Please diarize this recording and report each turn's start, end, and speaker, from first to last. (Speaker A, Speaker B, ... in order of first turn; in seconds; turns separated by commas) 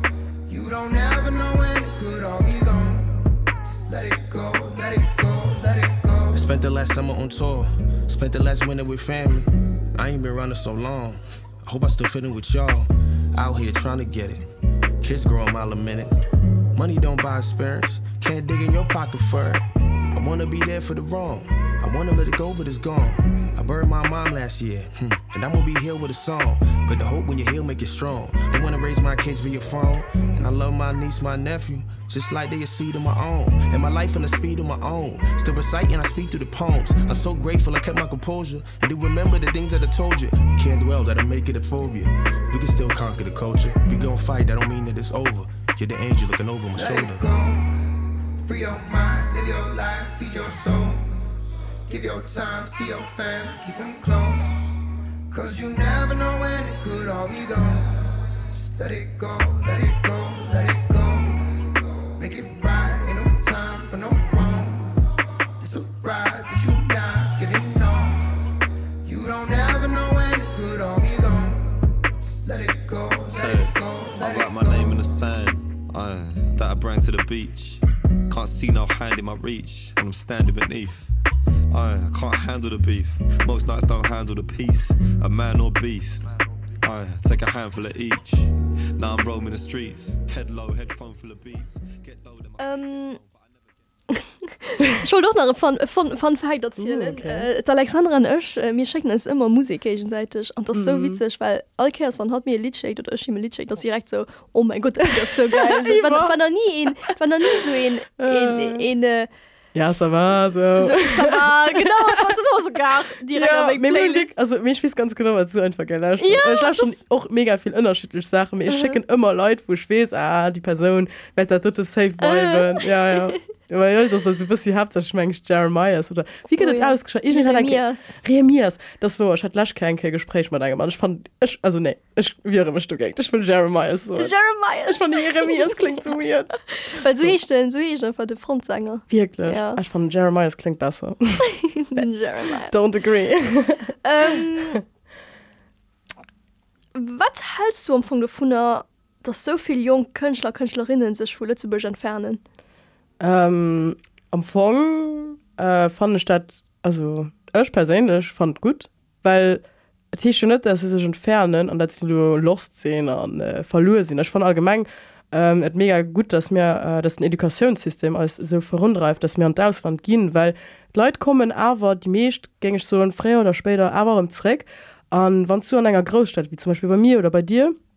Speaker A: 0.5-3.2, Speaker A: 3.8-6.5, Speaker B: 6.3-14.5, Speaker B: 15.0-16.1, Speaker B: 16.7-47.2, Speaker A: 46.8-51.3, Speaker A: 51.9-54.7, Speaker A: 55.3-65.1, Speaker A: 65.6-68.3, Speaker A: 69.0-71.8, Speaker A: 72.4-75.1, Speaker C: 73.3-81.1, Speaker C: 81.7-93.3, Speaker D: 92.6-93.2, Speaker D: 94.1-109.3, Speaker E: 96.8-97.5, Speaker E: 100.7-101.2, Speaker E: 105.1-106.4, Speaker E: 108.2-108.8, Speaker E: 109.8-112.3, Speaker D: 110.8-114.3, Speaker E: 113.3-134.3, Speaker D: 116.2-117.0, Speaker D: 118.7-119.0, Speaker D: 122.2-123.3, Speaker D: 126.6-128.2, Speaker D: 134.2-136.0, Speaker E: 134.9-137.3, Speaker D: 136.8-139.8, Speaker E: 139.1-142.1, Speaker D: 141.5-142.8, Speaker E: 142.7-144.7, Speaker D: 144.0-144.8, Speaker D: 146.9-152.4, Speaker E: 153.2-177.8